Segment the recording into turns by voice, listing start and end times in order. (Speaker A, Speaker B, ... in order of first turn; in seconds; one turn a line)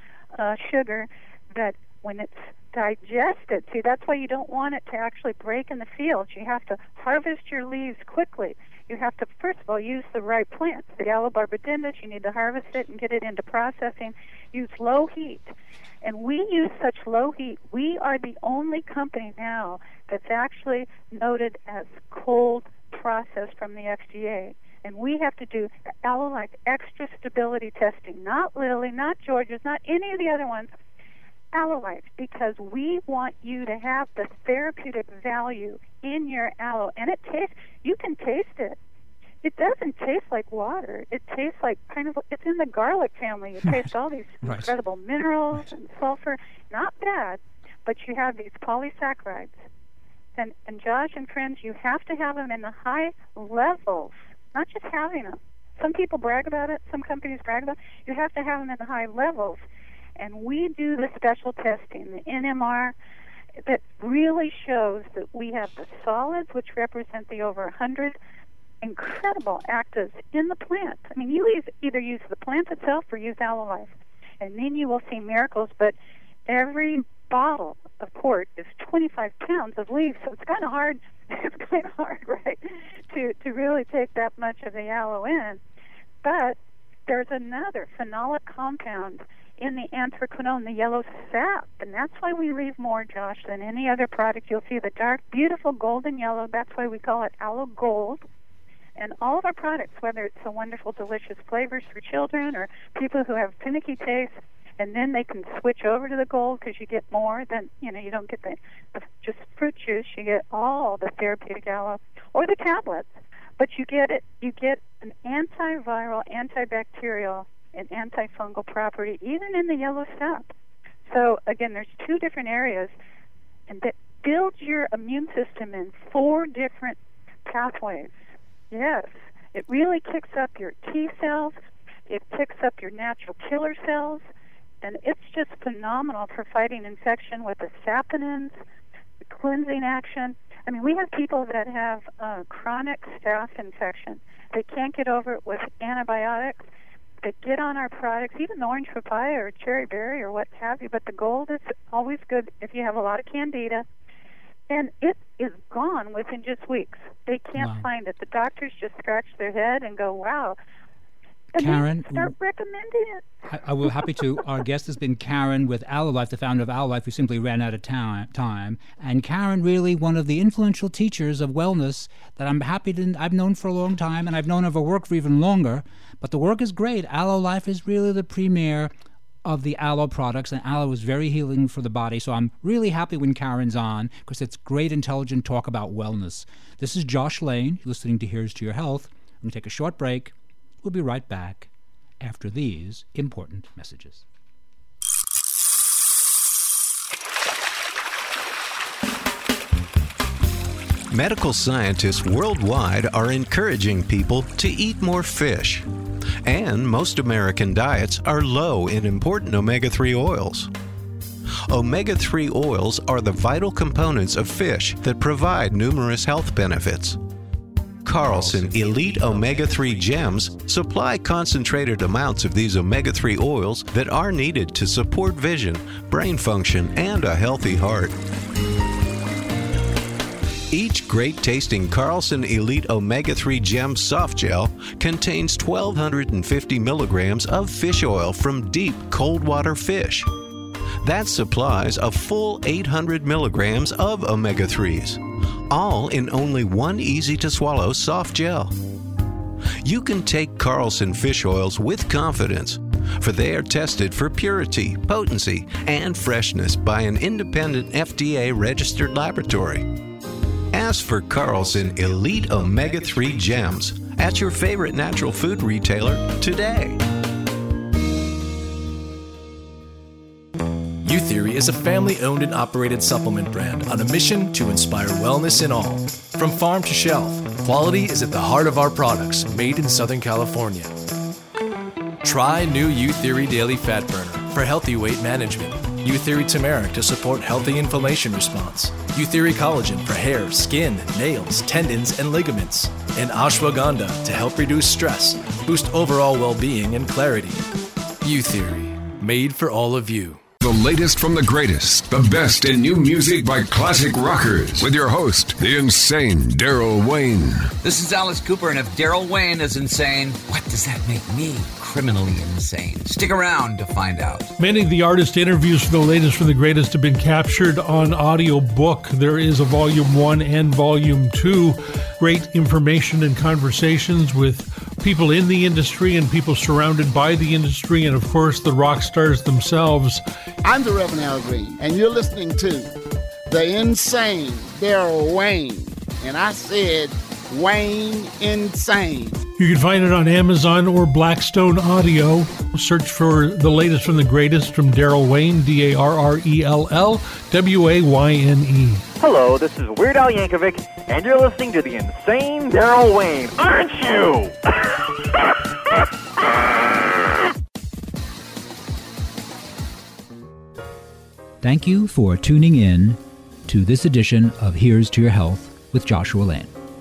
Speaker A: 0.3-30.7
Speaker A: 31.5-38.8
Speaker A: 39.4-49.6
Speaker B: 44.4-44.7
Speaker A: 50.4-59.6
Speaker A: 60.2-63.0
Speaker A: 63.6-68.2
Speaker A: 68.8-76.0
Speaker A: 76.5-85.6
Speaker A: 86.2-98.2
Speaker A: 99.0-120.5
Speaker A: 121.1-122.9
Speaker A: 123.7-128.2
Speaker A: 128.7-134.2
Speaker A: 134.8-138.6
Speaker A: 139.2-146.6
Speaker A: 147.2-153.9
Speaker A: 154.7-160.6
Speaker B: 157.6-157.9
Speaker A: 161.5-163.2
Speaker B: 161.6-162.3
Speaker B: 163.5-178.9
Speaker B: 179.4-191.7
Speaker B: 192.2-194.2
Speaker C: 201.1-205.9
Speaker C: 206.4-210.7
Speaker C: 211.7-217.2
Speaker C: 218.0-228.2
Speaker C: 230.7-240.3
Speaker C: 241.0-248.8
Speaker C: 249.8-260.0
Speaker C: 260.7-267.0
Speaker D: 271.0-280.9
Speaker D: 282.2-297.6
Speaker D: 298.2-300.4
Speaker E: 300.6-307.7
Speaker F: 307.8-314.5
Speaker G: 314.6-330.2
Speaker H: 330.6-332.9
Speaker H: 333.5-339.4
Speaker G: 339.6-349.1
Speaker I: 349.2-354.6
Speaker B: 361.6-366.7